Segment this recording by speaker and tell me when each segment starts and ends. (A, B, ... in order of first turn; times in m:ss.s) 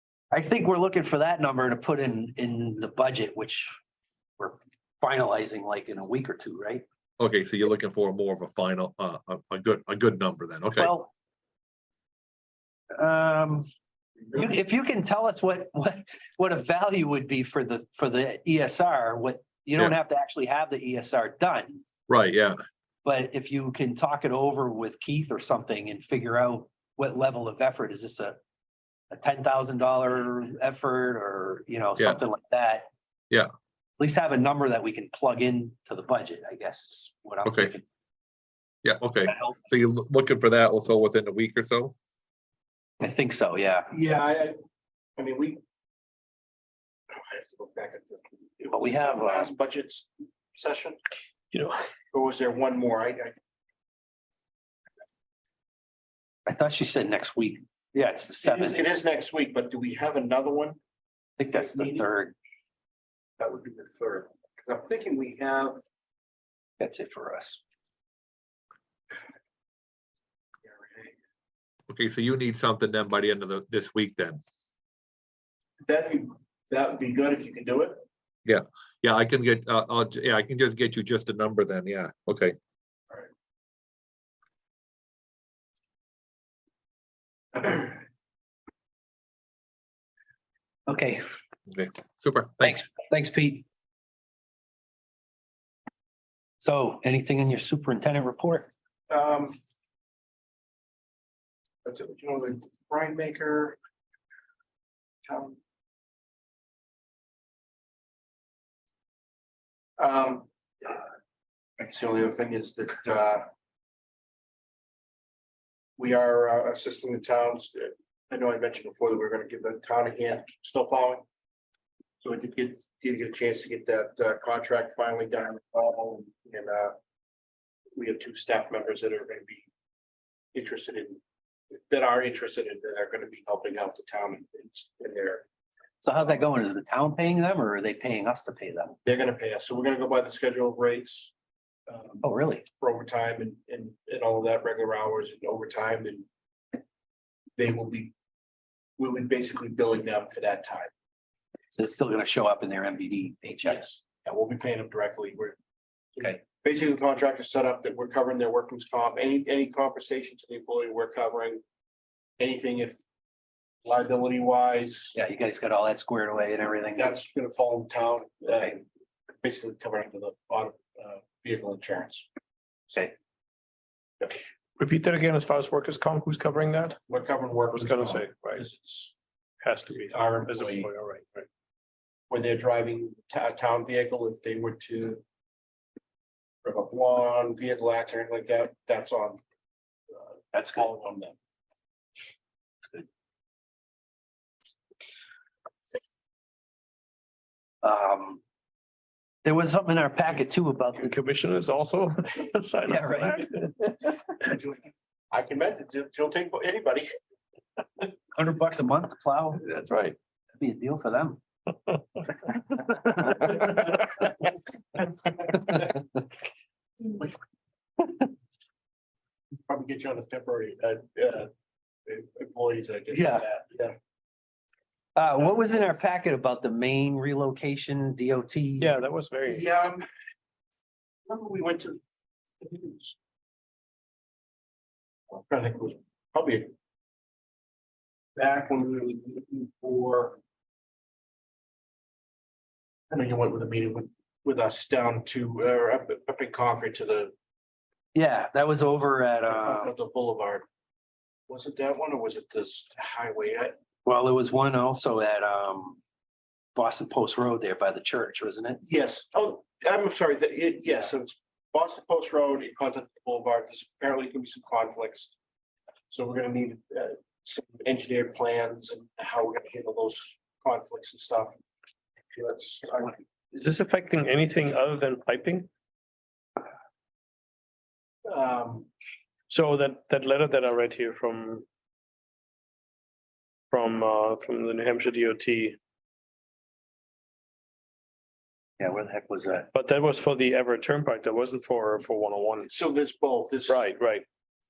0:00.3-0:03.8 A
0:04.4-0:06.8 A
0:07.2-0:11.0 B
0:10.8-0:11.1 A
0:13.0-0:13.7 A
0:14.3-0:21.9 A
0:22.1-0:22.6 B
0:23.0-0:28.4 A
0:29.1-0:32.9 A
0:34.0-0:37.8 A
0:37.4-0:37.8 B
0:38.8-0:42.0 B
0:39.3-0:39.5 A
0:43.0-0:43.9 A
0:43.9-0:44.6 C
0:45.2-0:45.6 C
0:47.1-0:51.0 C
0:48.7-0:49.5 A
0:51.5-0:51.8 D
0:52.1-0:53.3 C
0:56.5-0:58.8 A
0:58.4-1:00.8 C
1:01.4-1:02.4 A
1:01.5-1:02.1 C
1:03.4-1:05.8 C
1:06.8-1:07.6 A
1:10.6-1:11.2 C
1:11.9-1:14.4 B
1:15.8-1:18.0 C
1:18.5-1:22.6 B
1:27.5-1:28.0 C
1:30.9-1:31.2 A
1:31.7-1:32.9 B
1:32.6-1:33.6 A
1:36.6-1:38.7 A
1:39.1-1:39.6 C
1:41.8-1:43.8 C
1:45.2-1:45.6 C
1:50.0-1:51.1 C
1:51.8-1:53.4 C
1:56.0-2:01.2 C
2:02.2-2:07.0 C
2:08.0-2:09.7 C
2:10.5-2:11.2 C
2:11.7-2:15.5 C
2:16.0-2:19.0 A
2:19.0-2:21.3 C
2:21.9-2:22.2 C
2:22.2-2:22.7 A
2:22.8-2:26.8 C
2:27.6-2:28.1 C
2:29.0-2:30.9 C
2:31.7-2:33.8 A
2:33.6-2:35.6 C
2:36.2-2:41.6 C
2:42.4-2:43.0 C
2:43.8-2:45.2 C
2:45.2-2:47.2 A
2:47.0-2:48.9 C
2:49.4-2:52.3 C
2:54.8-2:57.0 D
2:57.1-2:59.1 C
2:57.7-2:58.6 D
2:59.6-3:01.5 D
3:00.1-3:00.9 C
3:02.3-3:05.2 C
3:06.6-3:09.4 C
3:10.1-3:11.4 C
3:10.5-3:10.9 A
3:17.8-3:18.4 A
3:19.4-3:21.1 A
3:21.0-3:24.2 D
3:22.9-3:23.5 A
3:25.3-3:27.1 C
3:28.3-3:29.7 A
3:30.6-3:31.4 A
3:33.3-3:33.6 A
3:39.7-3:41.5 C
3:42.1-3:44.0 C
3:43.1-3:43.4 A
3:45.2-3:49.0 A
3:45.4-3:45.9 C
3:48.8-3:49.7 D
3:49.5-3:50.1 C
3:51.3-3:52.0 C
3:52.6-3:53.2 C
3:55.3-3:56.7 C
3:58.4-4:00.4 C
4:03.1-4:07.3 C
4:08.1-4:09.9 A
4:09.4-4:10.7 C
4:11.5-4:13.8 C
4:14.0-4:16.0 A
4:16.8-4:18.8 A
4:18.8-4:25.3 C
4:26.1-4:31.6 C
4:32.3-4:33.2 C
4:33.5-4:35.7 D
4:38.2-4:38.9 C
4:39.5-4:41.6 D
4:43.7-4:45.8 D
4:48.8-4:49.7 A
4:49.7-4:52.7 D
4:52.7-4:53.8 C
4:53.7-4:54.2 D